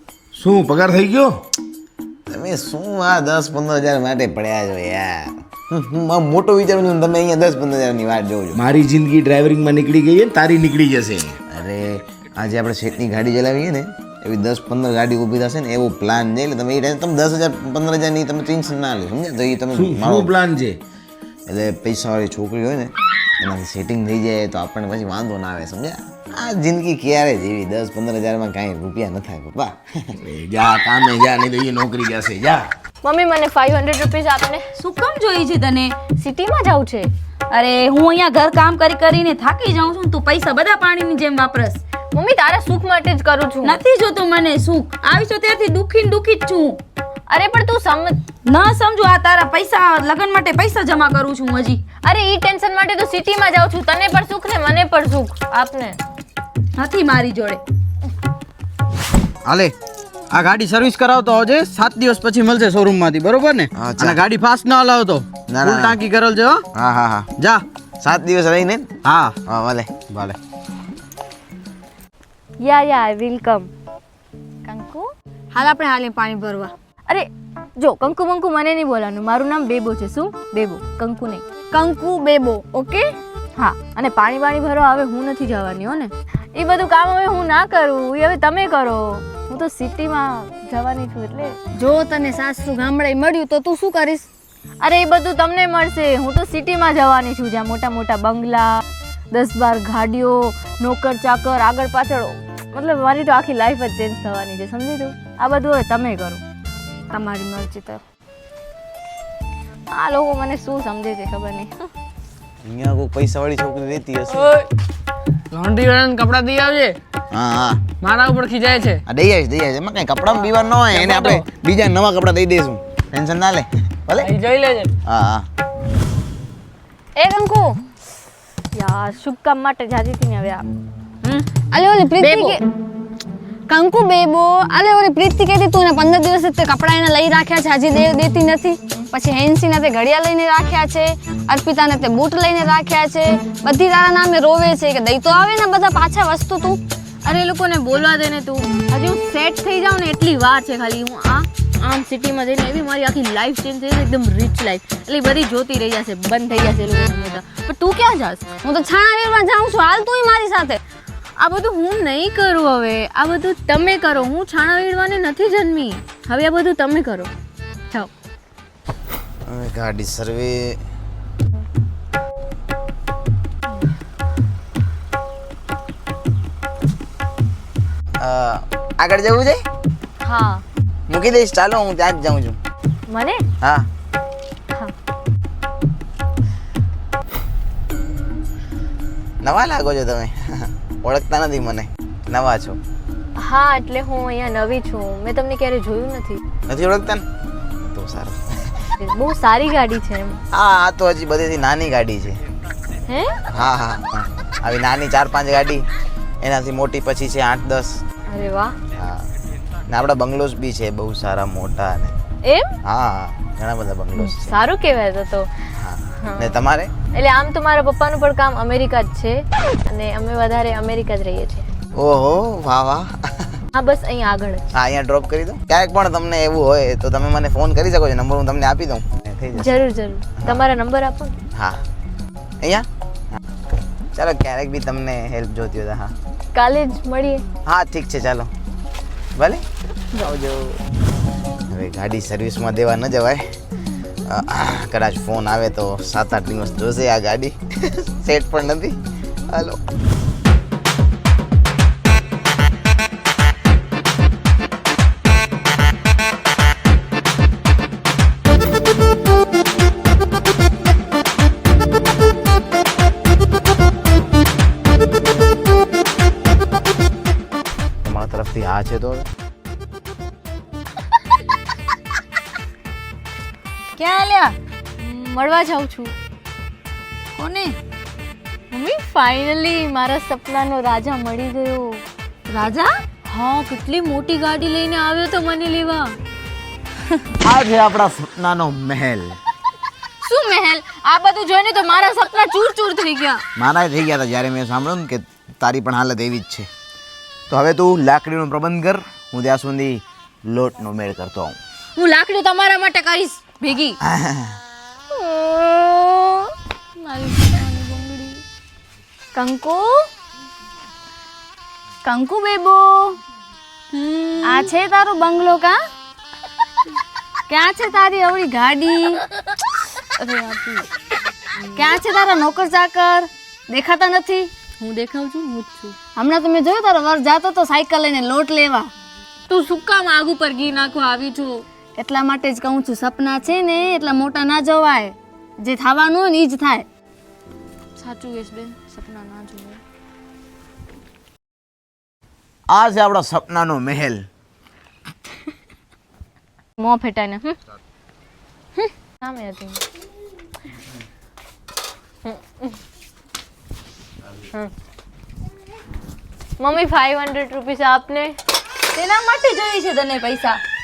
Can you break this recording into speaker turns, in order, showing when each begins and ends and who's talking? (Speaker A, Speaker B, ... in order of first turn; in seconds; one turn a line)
Speaker A: 0.3-1.4
Speaker B: 2.3-8.6
Speaker A: 8.5-11.4
Speaker B: 11.5-20.3
Speaker A: 19.7-20.8
Speaker B: 21.5-32.5
Speaker A: 30.3-32.5
Speaker C: 33.0-34.6
Speaker D: 34.8-36.0
Speaker C: 36.1-37.1
Speaker D: 37.5-41.8
Speaker C: 42.1-43.8
Speaker D: 43.6-46.8
Speaker C: 47.3-48.2
Speaker D: 48.4-51.8
Speaker C: 52.0-56.0
Speaker D: 56.8-57.6
Speaker E: 59.4-59.7
Speaker E: 60.3-66.6
Speaker B: 63.7-64.2
Speaker B: 65.5-66.0
Speaker B: 66.7-67.4
Speaker B: 68.0-70.4
Speaker E: 69.0-69.3
Speaker C: 72.6-73.7
Speaker C: 74.6-75.1
Speaker D: 75.5-76.7
Speaker C: 77.1-91.6
Speaker D: 91.8-94.2
Speaker C: 94.8-106.4
Speaker C: 107.1-108.0
Speaker C: 109.9-111.8
Speaker B: 112.6-114.5
Speaker F: 115.5-117.0
Speaker B: 117.3-117.8
Speaker F: 118.0-119.0
Speaker B: 119.0-124.3
Speaker F: 124.3-124.9
Speaker B: 125.0-125.5
Speaker C: 127.2-127.7
Speaker C: 128.7-130.7
Speaker D: 131.2-132.6
Speaker C: 132.2-132.6
Speaker D: 133.7-146.8
Speaker C: 147.2-158.5
Speaker D: 158.7-160.8
Speaker C: 161.4-167.3
Speaker B: 169.5-170.8
Speaker B: 178.2-179.6
Speaker C: 180.2-180.6
Speaker B: 181.1-182.6
Speaker C: 183.1-183.4
Speaker B: 183.6-183.8
Speaker B: 189.4-192.8
Speaker C: 193.4-196.4
Speaker B: 196.7-197.2
Speaker B: 197.8-198.7
Speaker C: 199.0-200.4
Speaker B: 200.5-202.4
Speaker C: 203.1-203.4
Speaker B: 203.5-205.8
Speaker B: 206.4-208.0
Speaker C: 208.3-208.8
Speaker B: 208.9-209.2
Speaker B: 209.9-212.1
Speaker C: 212.4-212.7
Speaker B: 212.8-214.6
Speaker C: 214.2-215.5
Speaker B: 215.8-216.9
Speaker C: 216.2-216.5
Speaker C: 217.1-221.7
Speaker B: 221.9-223.6
Speaker C: 223.7-224.6
Speaker B: 224.7-229.8
Speaker C: 229.6-231.3
Speaker B: 230.4-230.6
Speaker B: 231.5-231.8
Speaker B: 234.1-236.1
Speaker C: 236.5-237.4
Speaker B: 237.7-238.5
Speaker B: 239.3-239.6
Speaker C: 240.2-240.5
Speaker B: 241.7-243.4
Speaker B: 244.3-249.0
Speaker B: 249.5-249.8
Speaker B: 268.0-269.3
Speaker D: 274.0-274.6
Speaker C: 275.0-276.1
Speaker D: 277.4-277.8
Speaker C: 278.7-282.0
Speaker D: 282.5-282.9
Speaker C: 283.2-286.1
Speaker B: 287.4-289.4
Speaker C: 290.2-293.4
Speaker B: 293.6-296.7
Speaker B: 297.5-301.6
Speaker C: 302.0-304.0
Speaker B: 304.0-304.6
Speaker C: 305.1-306.2
Speaker C: 307.0-308.4
Speaker C: 309.4-309.9
Speaker C: 312.1-313.0
Speaker C: 313.9-314.7
Speaker D: 314.4-315.8
Speaker D: 317.5-319.2
Speaker C: 320.2-320.8
Speaker D: 321.7-324.5
Speaker C: 324.8-326.0
Speaker D: 326.1-328.9
Speaker C: 329.5-331.6
Speaker D: 332.0-336.9
Speaker C: 338.0-339.8
Speaker B: 342.7-344.2
Speaker C: 346.8-347.6
Speaker C: 348.8-349.8
Speaker C: 352.2-352.6
Speaker C: 356.6-358.4
Speaker D: 358.9-360.6